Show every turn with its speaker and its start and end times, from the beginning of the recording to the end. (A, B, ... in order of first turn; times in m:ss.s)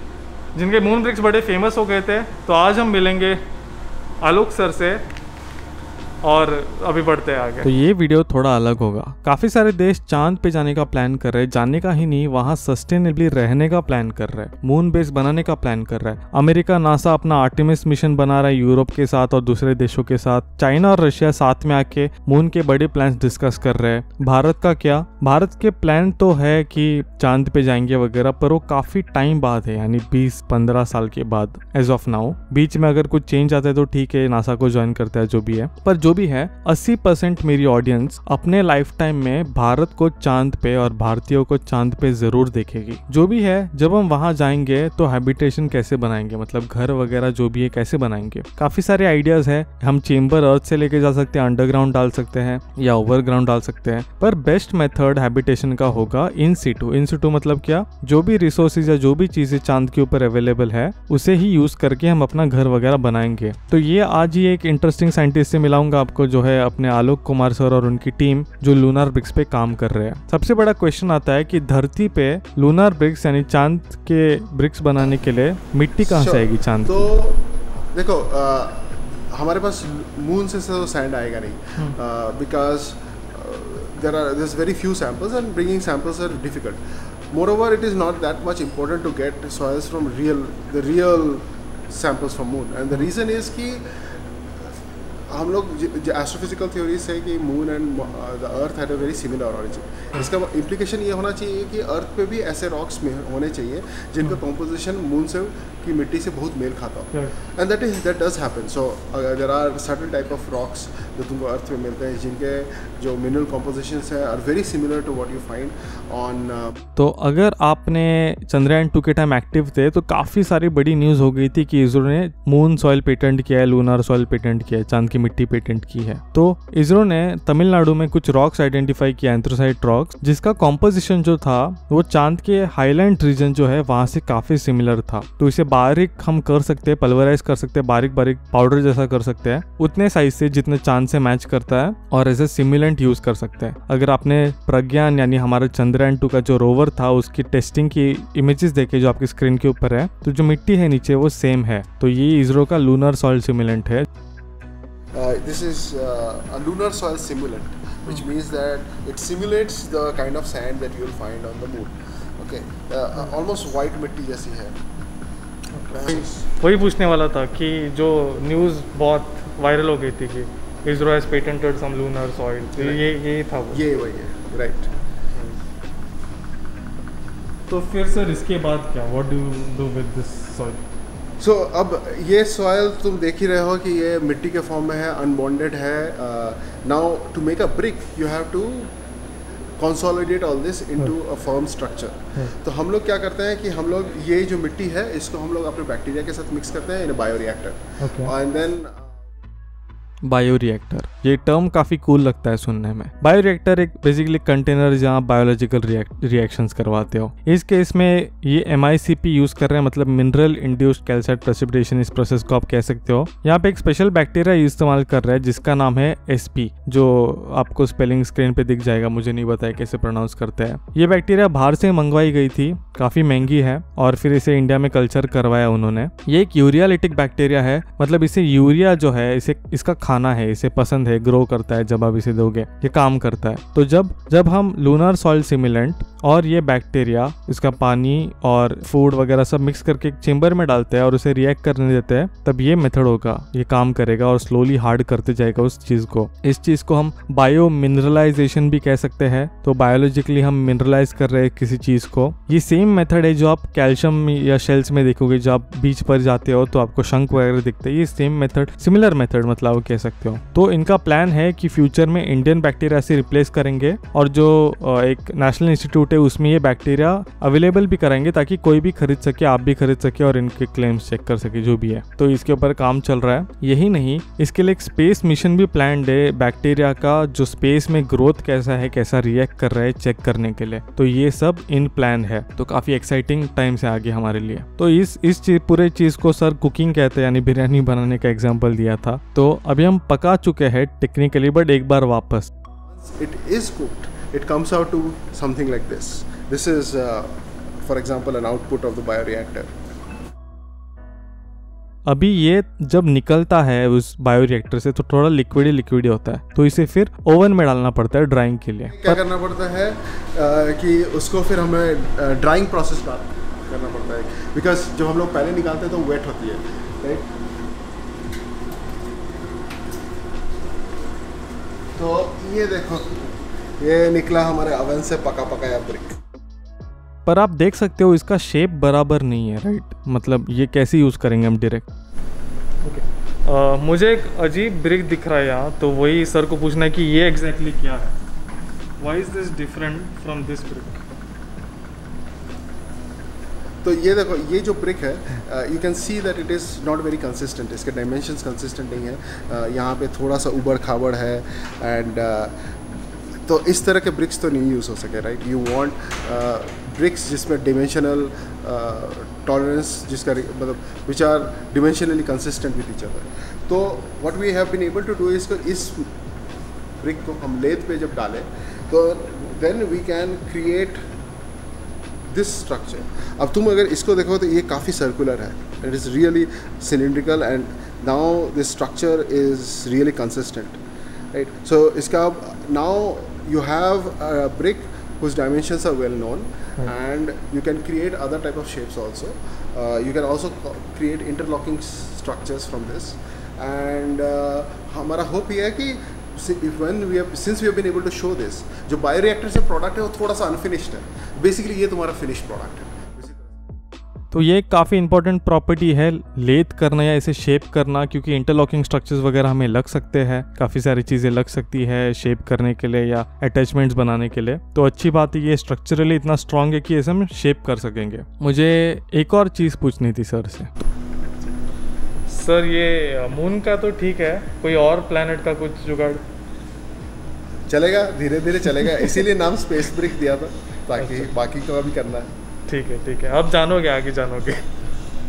0:00.6-0:03.4 A
0:04.2-0:05.0 A
0:06.2-0:07.7 A
0:07.6-1:17.1 B
1:16.0-1:34.7 C
1:35.3-1:56.8 C
1:57.0-2:34.1 B
2:35.1-2:44.8 C
2:45.7-2:53.8 A
2:45.9-2:46.4 C
2:52.8-2:53.0 C
2:53.7-2:55.6 C
2:57.7-3:00.8 A
3:01.4-3:08.9 C
3:09.8-3:19.2 C
3:18.0-3:18.3 A
3:20.2-4:52.5 B
4:52.9-4:59.7 C
5:02.1-5:09.2 B
5:08.9-5:17.3 C
5:22.0-5:26.2 C
5:27.3-5:31.9 B
5:32.8-5:38.2 A
5:39.0-5:41.0 A
5:43.8-5:52.6 C
5:53.5-6:06.1 C
6:07.0-6:11.0 C
6:12.3-6:20.8 C
6:21.3-6:43.6 C
6:44.3-7:00.7 B
7:02.3-7:06.2 A
7:07.7-7:12.3 C
7:11.0-7:11.3 A
7:12.7-7:14.6 A